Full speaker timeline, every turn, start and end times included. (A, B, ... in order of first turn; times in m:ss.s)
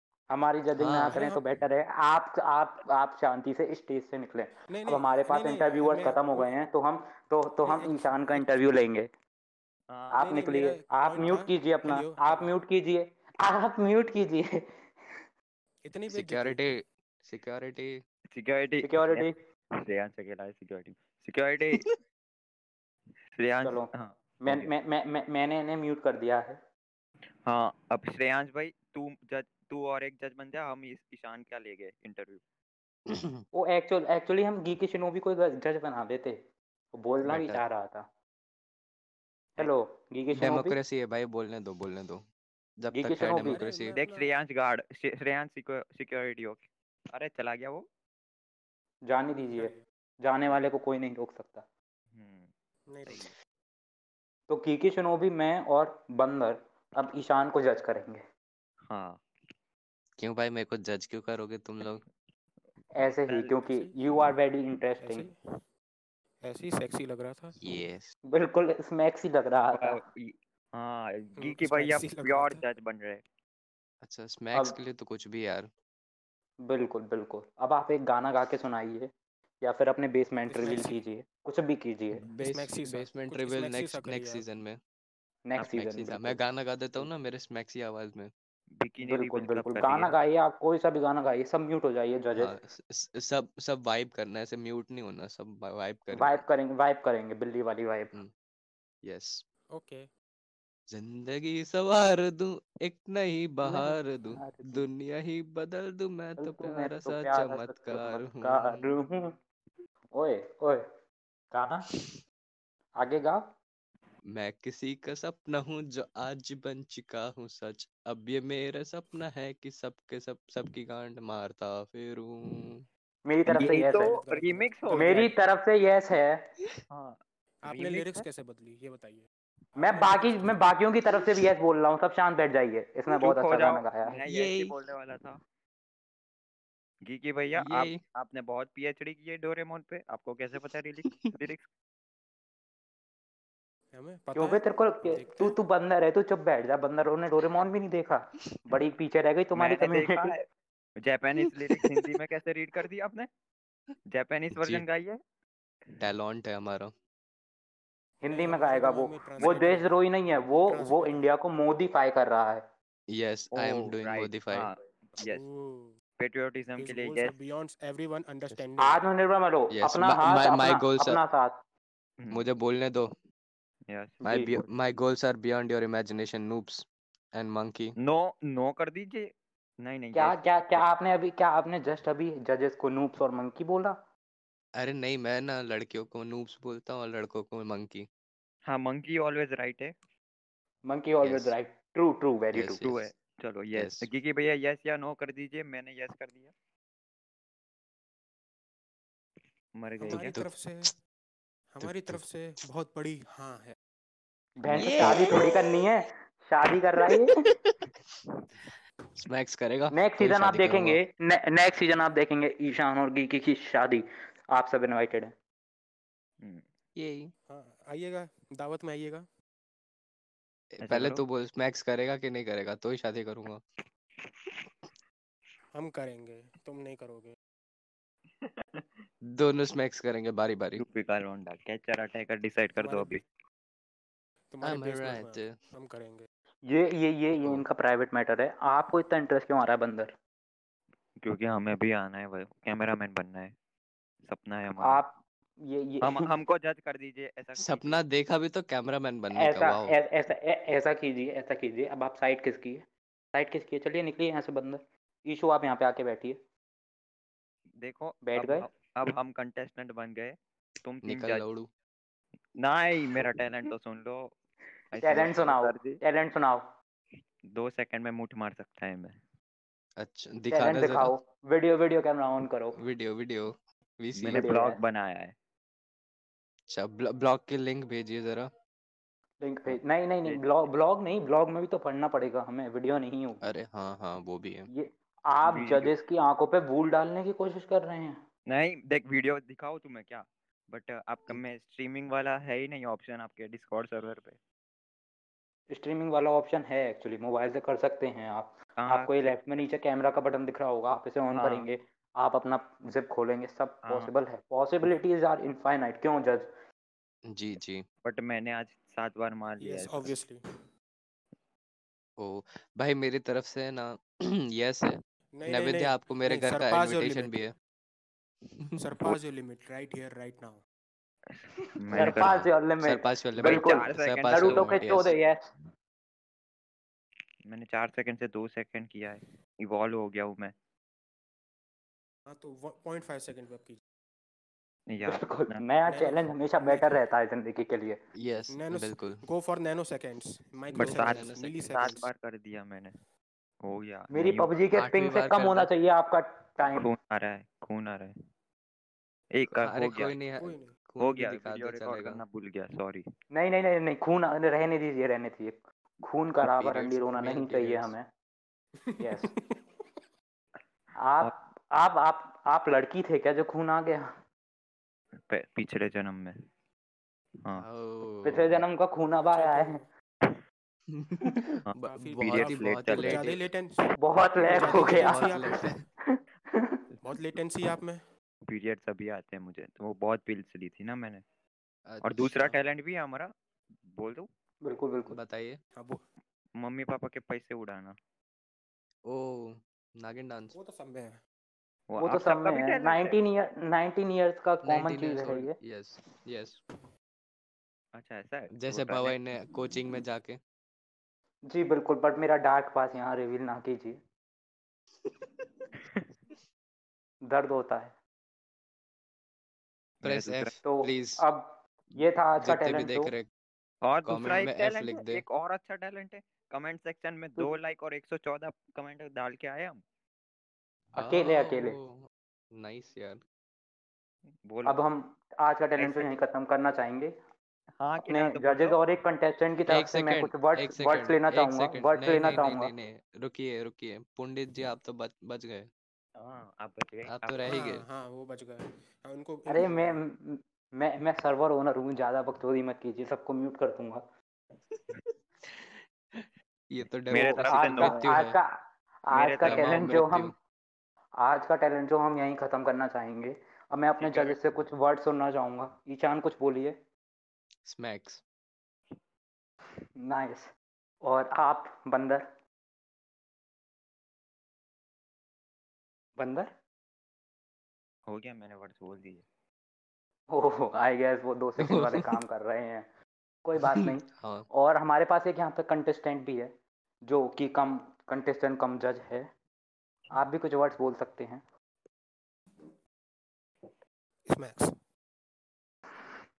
0:00.3-0:09.1 A
0:00.8-0:01.3 B
0:01.1-0:01.4 C
0:04.7-0:06.5 C
0:07.6-0:08.8 C
0:09.9-0:10.3 D
0:10.1-0:15.2 A
0:10.2-0:12.5 C
0:15.8-0:16.7 C
0:16.1-0:18.0 B
0:18.3-0:19.3 D
0:18.8-0:19.4 A
0:19.8-0:21.9 D
0:23.4-0:24.7 D
0:23.6-0:23.9 A
0:24.4-0:26.6 A
0:27.4-0:32.4 D
0:33.1-0:33.4 B
0:33.5-0:36.4 A
0:37.0-0:38.1 A
0:37.2-0:37.6 B
0:39.6-0:40.8 A
0:40.3-0:42.2 B
0:42.8-0:44.0 B
0:42.9-0:43.6 A
0:43.4-0:44.3 C
0:44.0-0:47.8 D
0:49.1-0:51.6 A
0:49.5-0:49.8 C
0:52.1-0:52.5 D
0:52.9-0:53.3 C
0:53.1-0:53.3 D
0:54.5-0:58.2 A
0:58.9-0:59.2 D
1:00.2-1:02.0 B
1:03.0-1:05.3 A
1:03.3-1:03.6 D
1:05.0-1:05.4 C
1:06.4-1:07.6 C
1:07.6-1:08.1 B
1:08.3-1:10.0 A
1:09.7-1:13.2 D
1:11.4-1:12.6 C
1:14.0-1:15.7 B
1:16.7-1:19.1 A
1:19.6-1:22.2 A
1:20.5-1:21.0 C
1:22.3-1:24.8 B
1:22.4-1:24.4 C
1:25.5-1:26.4 A
1:25.6-1:28.3 B
1:28.8-1:30.1 D
1:29.0-1:32.5 A
1:32.4-1:36.4 B
1:36.2-1:38.1 A
1:39.0-1:39.4 B
1:39.7-1:40.1 C
1:40.9-1:48.9 B
1:43.6-1:44.9 A
1:46.4-1:49.4 A
1:50.1-1:50.8 A
1:51.5-1:51.9 A
1:53.0-1:53.4 A
1:54.3-2:02.9 B
2:03.3-2:04.2 A
2:03.5-2:05.2 D
2:03.6-2:05.3 C
2:04.9-2:06.4 A
2:06.9-2:07.2 D
2:07.6-2:09.3 C
2:07.7-2:08.3 D
2:09.8-2:14.2 A
2:09.8-2:10.5 C
2:13.2-2:15.4 D
2:14.3-2:14.8 B
2:17.0-2:21.7 D
2:17.6-2:18.0 B
2:21.0-2:21.4 B
2:23.9-2:25.6 C
2:24.4-2:30.4 A
2:29.6-2:30.4 D
2:31.0-2:33.3 D
2:31.4-2:32.0 B
2:34.1-2:35.2 D
2:34.5-2:34.8 B
2:36.0-2:36.9 B
2:38.2-2:42.6 A
2:38.3-2:39.9 C
2:40.7-2:41.2 C
2:43.1-2:44.7 B
2:43.6-2:45.4 D
2:45.2-2:46.0 C
2:46.2-2:47.4 D
2:46.8-2:49.0 C
2:48.8-2:51.6 A
2:49.7-2:51.2 B
2:52.2-2:52.5 D
2:52.3-2:53.1 B
2:53.9-2:54.2 D
2:54.2-2:58.0 B
2:54.2-2:54.5 A
2:58.0-2:59.3 D
2:59.8-3:00.8 D
3:00.1-3:04.0 A
3:04.8-3:08.1 B
3:08.7-3:09.9 D
3:10.9-3:12.9 A
3:11.2-3:11.6 B
3:12.5-3:13.1 B
3:12.8-3:16.5 D
3:13.7-3:14.1 B
3:19.8-3:20.4 D
3:20.0-3:20.9 C
3:20.1-3:20.8 B
3:21.7-3:23.8 C
3:21.8-3:22.2 B
3:24.6-3:27.4 A
3:24.7-3:25.6 B
3:27.0-3:27.8 B
3:29.2-3:31.0 B
3:29.9-3:35.3 A
3:37.0-3:37.3 B
3:37.5-3:39.3 C
3:40.7-3:43.6 B
3:40.9-3:41.2 D
3:45.7-3:47.4 C
3:48.4-3:48.9 D
3:49.3-3:50.8 B
3:50.8-3:53.2 D
3:52.8-3:53.2 C
3:54.5-3:56.3 C
3:54.6-3:55.6 B
3:56.7-4:00.1 A
4:01.2-4:03.5 D
4:04.2-4:05.0 D
4:04.8-4:06.3 A
4:06.0-4:08.0 D
4:07.6-4:10.0 B
4:09.4-4:16.4 A
4:17.8-4:21.5 D
4:18.2-4:18.7 A
4:21.0-4:21.7 B
4:22.6-4:24.3 D
4:24.9-4:26.0 D
4:25.0-4:26.7 A
4:27.5-4:29.2 D
4:30.0-4:31.1 B
4:30.5-4:32.8 A
4:32.8-4:34.5 B
4:34.2-4:35.3 D
4:34.3-4:34.8 A
4:36.7-4:38.5 B
4:39.4-4:43.4 A
4:43.4-4:44.7 B
4:44.7-4:48.2 A
4:45.5-4:45.9 D
4:48.5-4:54.4 D
4:55.7-5:06.5 A
4:58.8-4:59.3 D
5:01.3-5:01.7 D
5:03.8-5:04.1 D
5:07.3-5:07.8 B
5:08.0-5:10.1 D
5:09.6-5:10.4 C
5:12.2-5:17.5 B
5:15.4-5:17.3 C
5:18.6-5:19.2 B
5:18.8-5:20.6 C
5:21.3-5:22.4 D
5:21.9-5:25.4 A
5:22.0-5:25.2 B
5:23.4-5:24.8 D
5:27.5-5:30.5 D
5:32.3-5:33.8 C
5:34.9-5:35.6 D
5:35.1-5:38.0 A
5:35.8-5:36.9 C
5:38.2-5:39.2 B
5:38.5-5:42.1 C
5:40.7-5:41.7 B
5:40.8-5:43.0 D
5:43.6-5:44.6 D
5:44.1-5:46.9 A
5:44.7-5:45.7 B
5:46.7-5:48.2 D
5:49.3-5:50.1 D
5:49.5-5:52.2 B
5:50.2-5:50.8 C
5:51.0-5:53.0 D
5:53.3-5:58.1 A
5:56.4-5:57.9 B
5:58.8-5:59.6 C
5:59.0-5:59.3 A
6:01.0-6:04.1 A
6:05.3-6:06.4 D
6:07.6-6:08.6 B
6:08.2-6:09.8 A
6:09.3-6:09.9 C
6:10.9-6:13.5 B
6:11.7-6:13.4 D
6:11.9-6:15.8 C
6:14.0-6:16.8 A
6:14.6-6:15.8 B
6:17.0-6:18.0 C
6:18.5-6:21.2 D
6:21.9-6:22.6 B
6:22.0-6:23.3 D
6:23.9-6:24.3 D
6:24.6-6:25.2 A
6:25.1-6:25.6 B
6:25.8-6:26.0 C
6:26.6-6:28.0 D
6:29.1-6:30.6 B
6:30.5-6:31.2 C
6:31.9-6:33.2 D
6:32.0-6:35.6 A
6:34.6-6:36.6 B
6:38.0-6:39.2 D
6:38.5-6:40.4 B
6:41.5-6:44.0 A
6:45.0-6:45.5 B
6:45.8-6:46.0 D
6:47.3-6:47.9 A
6:50.0-6:50.6 D
6:50.0-6:51.2 B
6:50.6-6:53.1 A
6:52.4-6:53.3 B
6:53.8-6:59.8 D
6:54.0-6:55.2 B
7:01.0-7:01.8 A
7:01.0-7:03.2 B
7:04.5-7:04.8 D
7:04.7-7:07.2 A
7:05.8-7:06.2 D
7:07.8-7:08.8 D
7:08.1-7:12.7 A
7:09.7-7:15.7 B
7:16.2-7:17.6 D
7:17.1-7:17.9 B
7:17.5-7:20.0 C
7:19.5-7:24.0 A
7:24.7-7:28.4 B
7:27.1-7:28.1 D
7:27.1-7:30.3 A
7:29.1-7:29.9 D
7:29.4-7:30.3 B
7:31.2-7:36.8 A
7:34.0-7:34.3 D
7:37.6-7:38.2 B
7:40.0-7:40.5 A
7:41.0-7:42.3 A
7:46.2-7:46.5 A
7:48.1-7:49.2 D
7:50.3-7:52.9 A
7:51.6-7:52.2 B
7:53.4-7:56.5 A
7:53.6-7:54.5 B
7:57.1-7:59.3 A
8:00.1-8:01.4 A
8:04.3-8:04.8 C